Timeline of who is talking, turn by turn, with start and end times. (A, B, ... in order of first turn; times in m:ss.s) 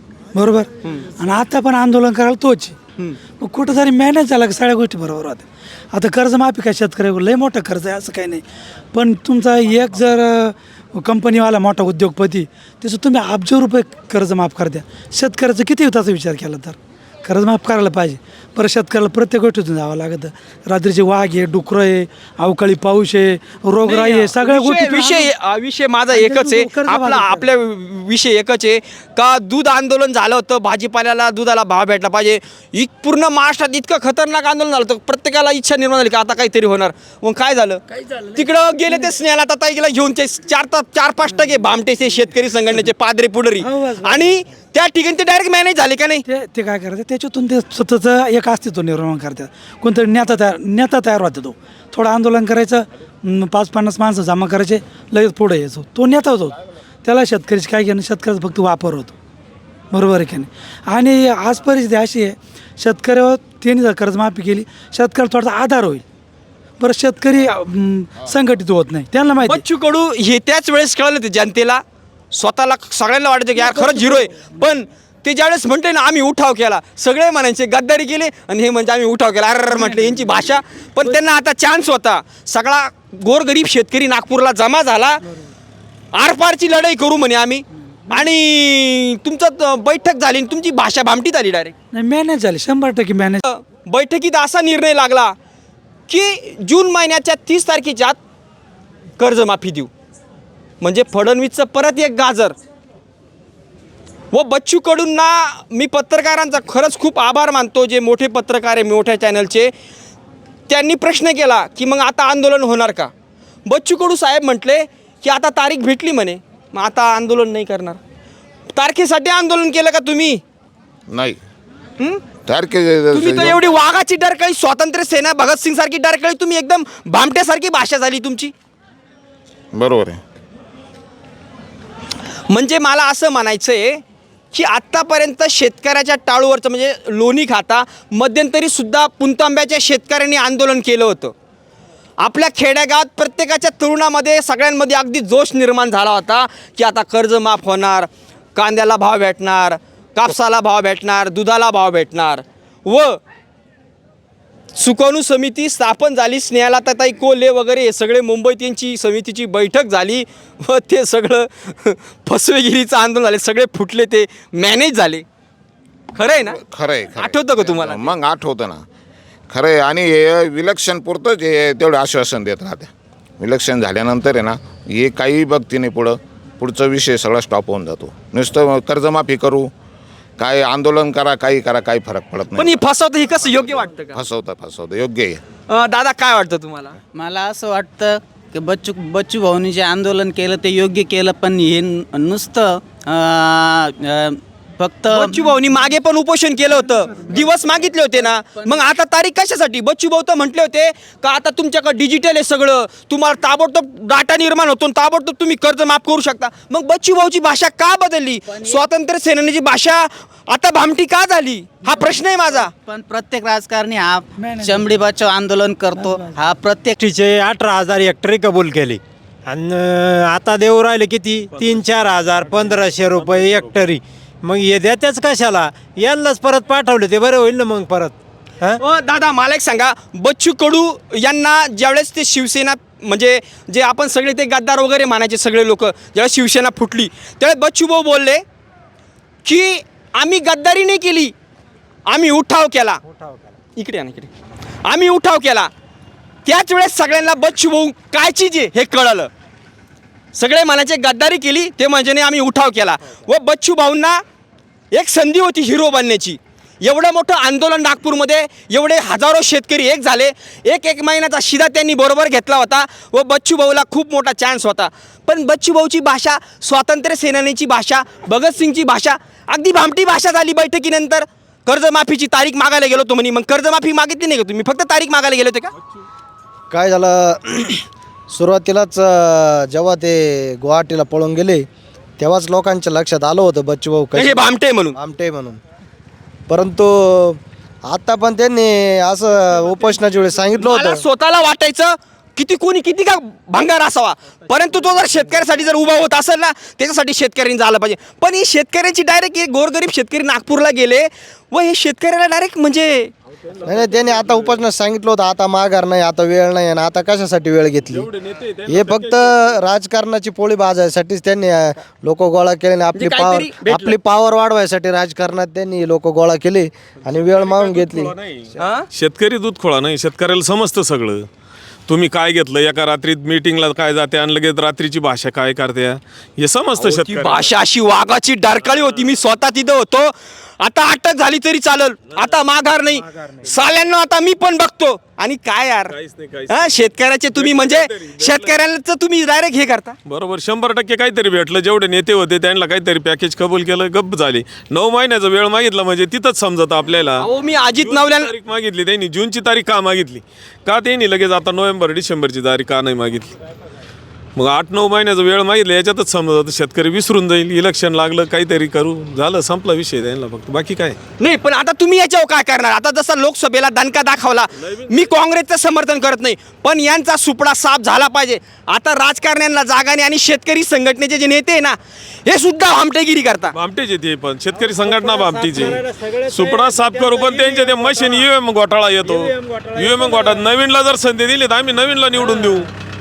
0:00.3-0:02.8 A
0:03.4-0:25.3 A
0:23.8-0:37.8 B
0:26.1-0:27.5 A
0:38.3-0:46.2 B
0:43.6-0:44.3 A
0:46.2-0:59.1 A
0:59.9-1:06.0 A
1:06.8-1:09.6 A
1:09.4-1:25.2 B
1:13.6-1:14.5 A
1:26.1-1:31.7 B
1:31.9-1:33.4 A
1:33.4-1:35.4 B
1:36.1-1:38.2 B
1:39.2-1:39.9 B
1:40.8-1:42.6 B
1:44.3-1:49.7 B
1:50.7-1:53.1 B
1:53.6-1:58.0 B
1:58.7-2:00.4 B
2:01.1-2:01.4 C
2:02.0-2:02.2 B
2:02.4-2:03.6 C
2:03.1-2:08.5 B
2:09.7-2:10.2 C
2:12.5-2:14.0 B
2:14.5-2:21.3 B
2:22.2-2:33.2 B
2:34.8-2:45.2 B
2:46.1-2:46.6 B
2:46.5-2:48.8 C
2:47.2-2:48.2 B
2:49.5-2:59.7 C
3:00.4-3:02.8 C
3:02.6-3:04.2 B
3:04.1-3:05.4 C
3:05.7-3:07.0 B
3:07.1-3:15.7 D
3:15.1-3:32.7 B
3:32.8-3:37.0 D
3:34.4-3:34.9 A
3:36.0-3:36.3 A
3:37.0-3:48.8 E
3:48.8-3:58.4 B
3:59.4-4:01.3 B
4:02.1-4:03.0 B
4:03.8-4:04.3 B
4:04.8-4:05.7 B
4:06.4-4:09.3 B
4:10.3-4:14.2 B
4:14.9-4:35.7 B
4:36.7-4:41.7 F
4:42.2-4:45.6 F
4:44.1-4:45.0 B
4:46.5-4:51.0 F
4:50.6-5:03.1 B
5:03.6-5:08.1 F
5:07.9-5:09.6 G
5:08.7-5:18.1 F
5:13.0-5:13.9 B
5:17.1-5:21.3 G
5:18.6-5:18.9 B
5:21.9-5:27.5 G
5:26.8-5:35.9 B
5:28.7-5:29.0 G
5:35.9-5:36.7 G
5:36.5-5:40.0 B
5:37.3-5:38.6 G
5:40.0-5:47.2 G
5:47.2-5:48.3 B
5:47.8-5:53.3 G
5:54.4-6:01.0 G
6:01.2-6:13.5 B
6:04.7-6:05.0 G
6:13.5-6:22.7 G
6:14.9-6:17.8 E